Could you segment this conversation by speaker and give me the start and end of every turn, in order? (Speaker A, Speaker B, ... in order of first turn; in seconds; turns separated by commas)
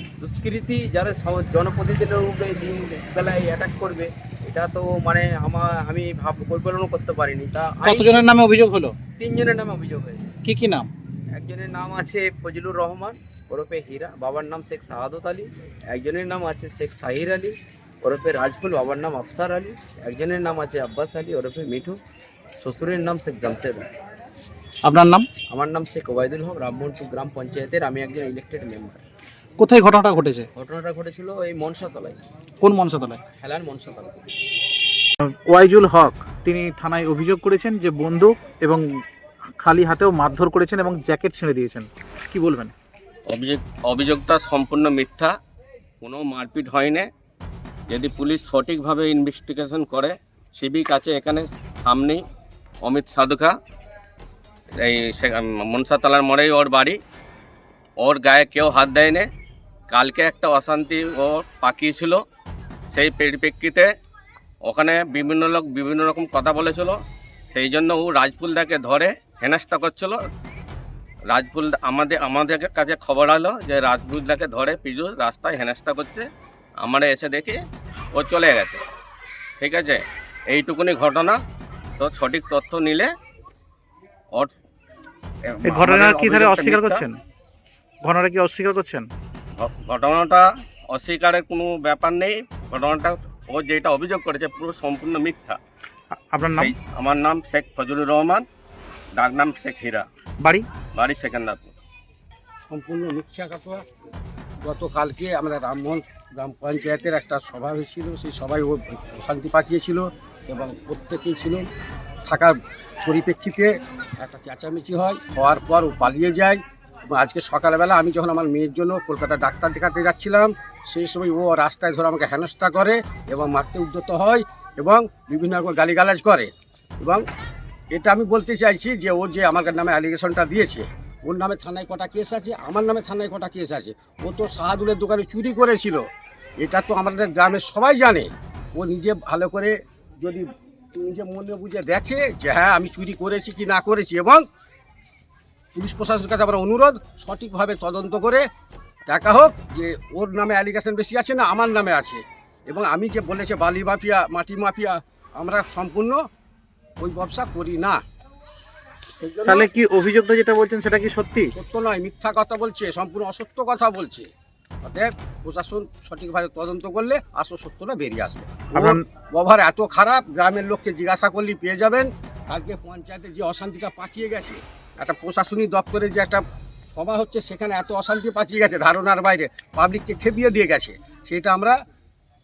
Speaker A: 0.2-8.2, Speaker B: 7.9-8.9, Speaker A: 9.2-10.3, Speaker B: 10.5-10.9, Speaker A: 11.4-22.0, Speaker A: 22.6-23.9, Speaker B: 24.8-25.3, Speaker A: 25.5-29.0, Speaker B: 29.6-30.4, Speaker A: 30.6-32.2, Speaker B: 32.7-33.2, Speaker A: 33.4-34.3, Speaker B: 35.2-38.8, Speaker B: 39.6-42.7, Speaker C: 43.3-45.3, Speaker C: 46.0-47.1, Speaker C: 47.9-52.2, Speaker C: 52.8-53.5, Speaker C: 54.8-57.0, Speaker C: 58.0-59.3, Speaker C: 59.9-62.2, Speaker C: 62.9-63.9, Speaker C: 64.7-67.0, Speaker C: 67.5-70.2, Speaker C: 71.3-76.3, Speaker C: 76.8-77.6, Speaker C: 78.1-78.8, Speaker C: 79.6-81.4, Speaker C: 82.0-83.1, Speaker C: 85.5-87.0, Speaker B: 85.7-87.2, Speaker B: 88.0-89.1, Speaker C: 89.6-95.6, Speaker B: 96.3-96.8, Speaker C: 96.6-98.5, Speaker C: 99.2-100.1, Speaker B: 100.4-100.7, Speaker C: 100.9-101.7, Speaker D: 102.7-103.8, Speaker D: 104.6-111.7, Speaker D: 112.2-127.2, Speaker D: 127.9-136.0, Speaker D: 136.6-140.4, Speaker D: 141.0-144.4, Speaker D: 145.8-148.4, Speaker D: 149.1-156.2, Speaker D: 157.0-158.0, Speaker D: 159.2-159.7, Speaker B: 159.4-161.5, Speaker D: 161.5-164.3, Speaker D: 164.8-176.4, Speaker B: 168.7-169.0, Speaker D: 176.9-181.8